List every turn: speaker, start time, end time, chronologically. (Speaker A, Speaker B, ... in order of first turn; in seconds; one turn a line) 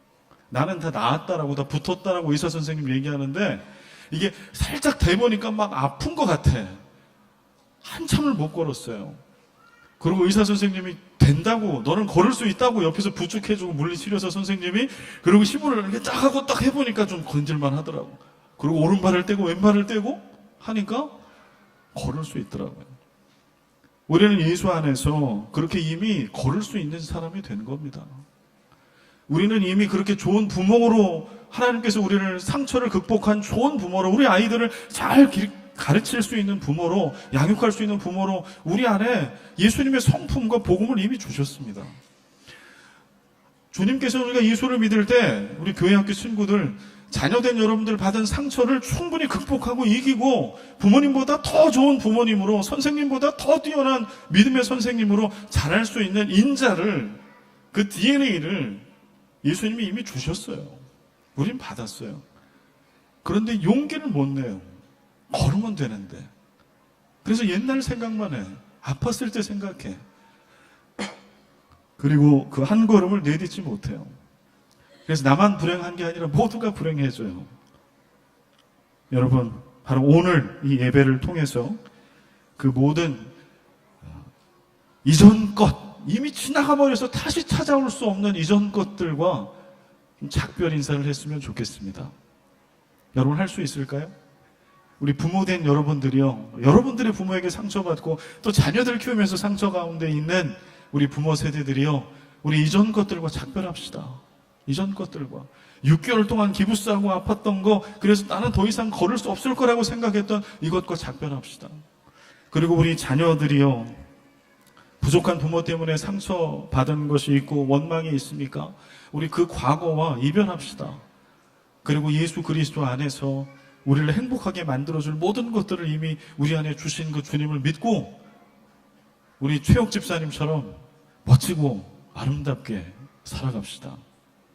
Speaker A: 0.5-6.8
Speaker A: 7.8-9.2
Speaker A: 10.0-21.1
Speaker A: 21.9-22.9
Speaker A: 24.1-28.2
Speaker A: 29.3-41.9
Speaker A: 43.7-57.2
Speaker A: 57.7-58.9
Speaker A: 59.4-60.8
Speaker A: 61.3-62.2
Speaker A: 63.2-66.3
Speaker A: 67.2-70.0
Speaker A: 72.0-74.2
Speaker A: 75.0-77.5
Speaker A: 79.1-81.8
Speaker A: 82.6-83.3
Speaker A: 84.0-84.3
Speaker A: 85.0-89.5
Speaker A: 90.2-92.1
Speaker A: 93.1-94.1
Speaker A: 95.0-111.8
Speaker A: 112.5-114.0
Speaker A: 115.0-121.0
Speaker A: 121.8-128.2
Speaker A: 129.4-134.0